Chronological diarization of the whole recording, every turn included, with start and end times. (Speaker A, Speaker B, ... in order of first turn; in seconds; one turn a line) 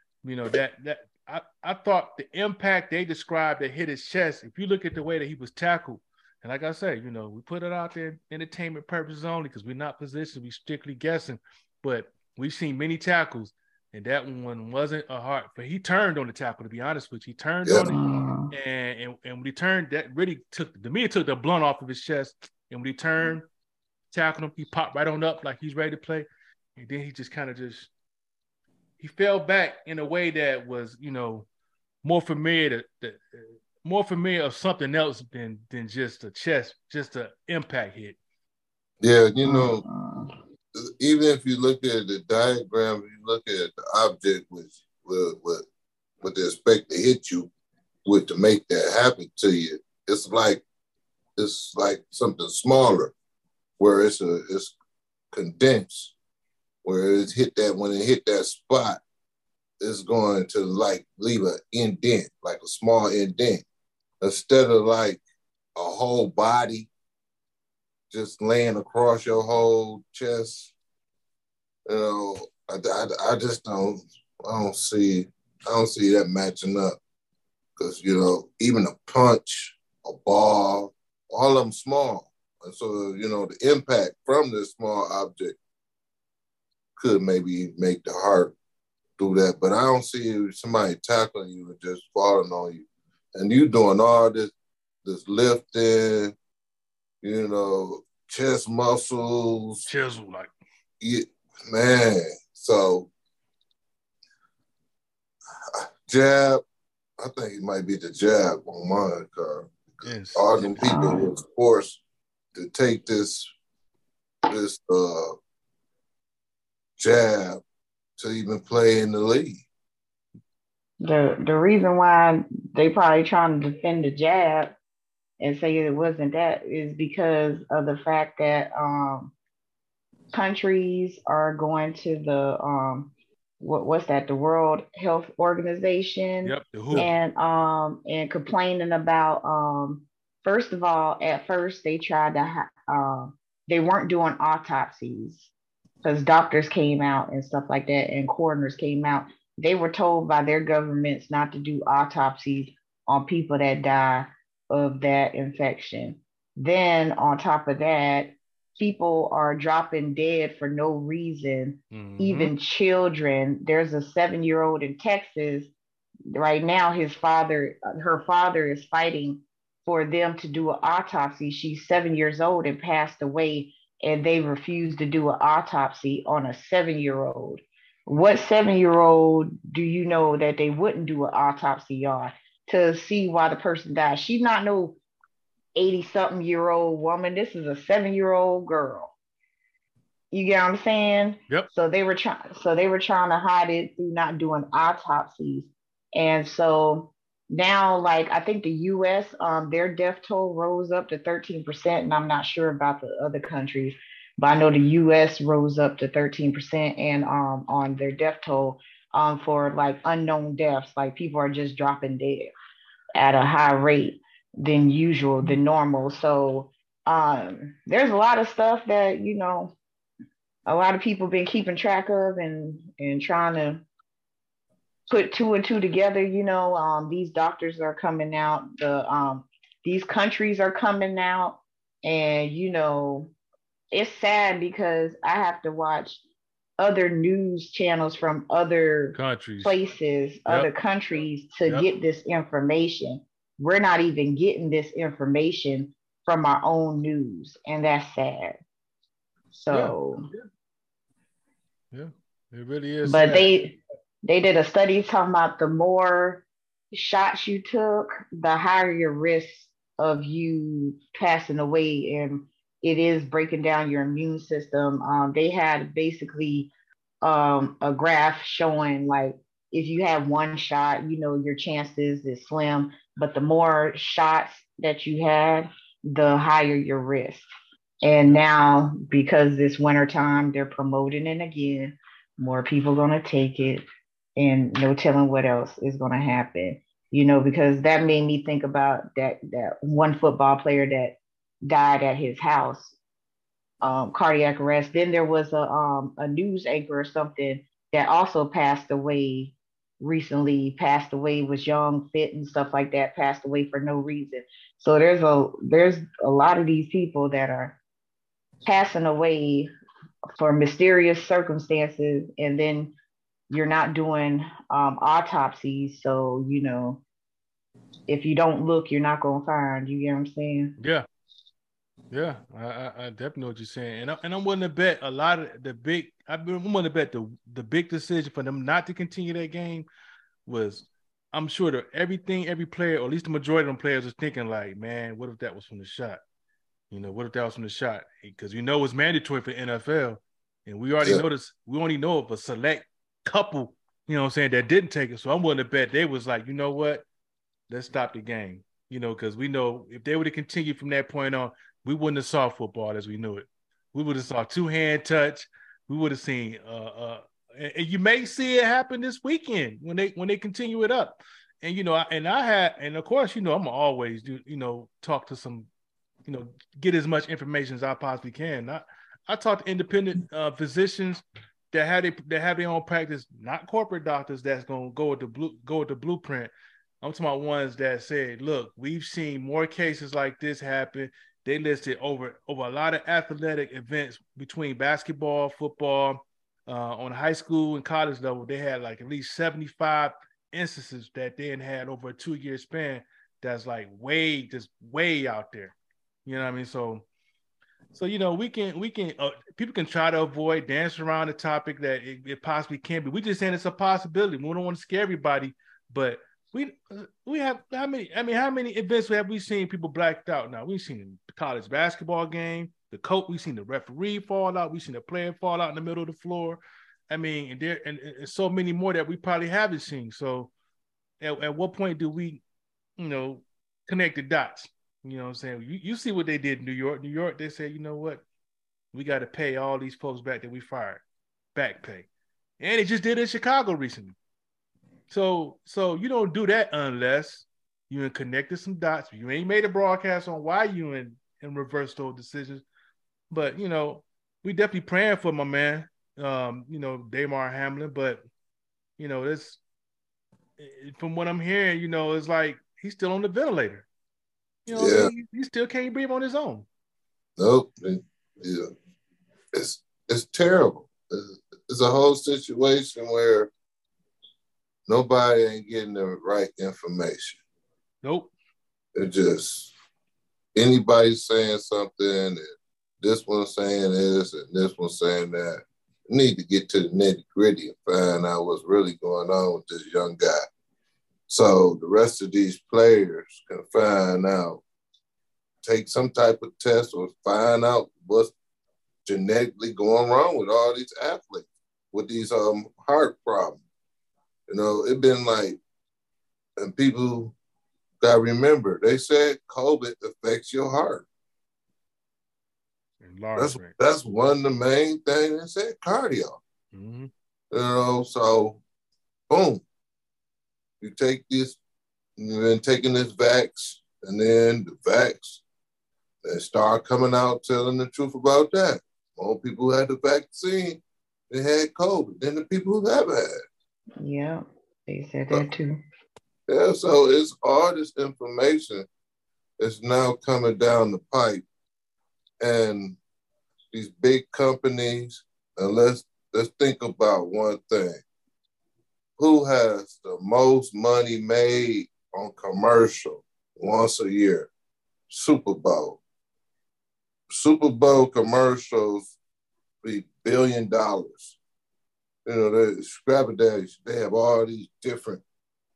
Speaker A: 0.2-18.0
Speaker B: 17.6-17.9
Speaker C: 17.8-18.5
Speaker A: 18.5-23.4
Speaker A: 24.1-27.9
Speaker A: 29.0-31.5
Speaker A: 32.0-38.2
Speaker B: 39.0-39.8
Speaker C: 39.4-40.3
Speaker B: 40.7-45.6
Speaker B: 46.2-47.5
Speaker B: 48.0-50.6
Speaker B: 51.4-53.1
Speaker B: 53.8-54.8
Speaker B: 55.3-56.1
Speaker B: 56.8-59.0
Speaker B: 59.8-63.6
Speaker B: 64.2-65.2
Speaker B: 65.8-66.9
Speaker B: 68.1-70.7
Speaker B: 71.9-77.0
Speaker B: 77.8-85.6
Speaker B: 87.0-88.5
Speaker B: 89.2-94.5
Speaker B: 95.0-96.3
Speaker B: 97.2-99.9
Speaker A: 99.8-100.5
Speaker B: 101.0-103.1
Speaker B: 105.7-106.6
Speaker B: 107.2-112.0
Speaker A: 110.0-110.8
Speaker C: 110.8-111.3
Speaker B: 112.5-113.5
Speaker B: 114.5-115.3
Speaker B: 117.0-117.6
Speaker B: 118.2-119.6
Speaker C: 121.0-124.8
Speaker C: 125.4-129.3
Speaker C: 130.3-145.5
Speaker A: 136.4-137.1
Speaker C: 146.0-165.7
Speaker A: 161.9-162.5
Speaker C: 166.3-185.0
Speaker C: 185.8-189.1
Speaker C: 190.3-212.5
Speaker C: 213.1-219.7
Speaker C: 220.7-223.8
Speaker C: 225.1-233.3
Speaker C: 233.9-236.2
Speaker C: 236.8-248.6
Speaker A: 239.1-239.8
Speaker C: 249.6-250.2
Speaker A: 251.9-253.5
Speaker C: 253.1-266.7
Speaker C: 267.2-277.4
Speaker C: 278.0-283.8
Speaker C: 284.4-292.9
Speaker C: 293.8-307.8
Speaker C: 308.6-309.7
Speaker C: 310.4-312.9
Speaker C: 313.5-317.0
Speaker C: 318.1-320.8
Speaker A: 320.8-321.1
Speaker A: 322.1-329.9
Speaker A: 330.4-336.2
Speaker A: 336.9-347.0
Speaker A: 347.7-365.7
Speaker A: 366.2-395.7
Speaker A: 396.2-397.1
Speaker A: 397.9-420.5
Speaker A: 421.2-422.4
Speaker A: 423.0-428.2
Speaker A: 428.9-431.0
Speaker A: 431.5-432.1
Speaker A: 432.6-434.1
Speaker A: 435.1-442.6
Speaker A: 443.3-448.2
Speaker A: 449.0-449.6
Speaker A: 450.6-453.9
Speaker A: 454.6-456.7
Speaker B: 454.7-455.1
Speaker B: 457.4-458.7
Speaker B: 459.5-463.5
Speaker B: 464.9-467.4
Speaker A: 468.0-468.3
Speaker B: 468.9-469.7
Speaker B: 470.5-480.4
Speaker B: 481.3-484.6
Speaker B: 485.6-488.3
Speaker B: 489.0-493.6
Speaker B: 494.5-495.6
Speaker B: 496.6-497.3
Speaker B: 498.0-501.1
Speaker A: 503.0-503.8
Speaker B: 503.4-506.4
Speaker A: 506.7-507.1
Speaker B: 507.5-508.6
Speaker B: 509.3-509.6
Speaker B: 510.8-511.6
Speaker B: 512.2-515.4
Speaker B: 516.2-523.4
Speaker C: 524.0-525.8
Speaker B: 526.5-528.9
Speaker B: 529.6-531.4
Speaker B: 532.4-533.0
Speaker B: 533.7-538.0
Speaker B: 539.2-544.5
Speaker B: 545.1-546.0
Speaker B: 547.3-549.1
Speaker B: 549.8-551.4
Speaker B: 552.2-555.2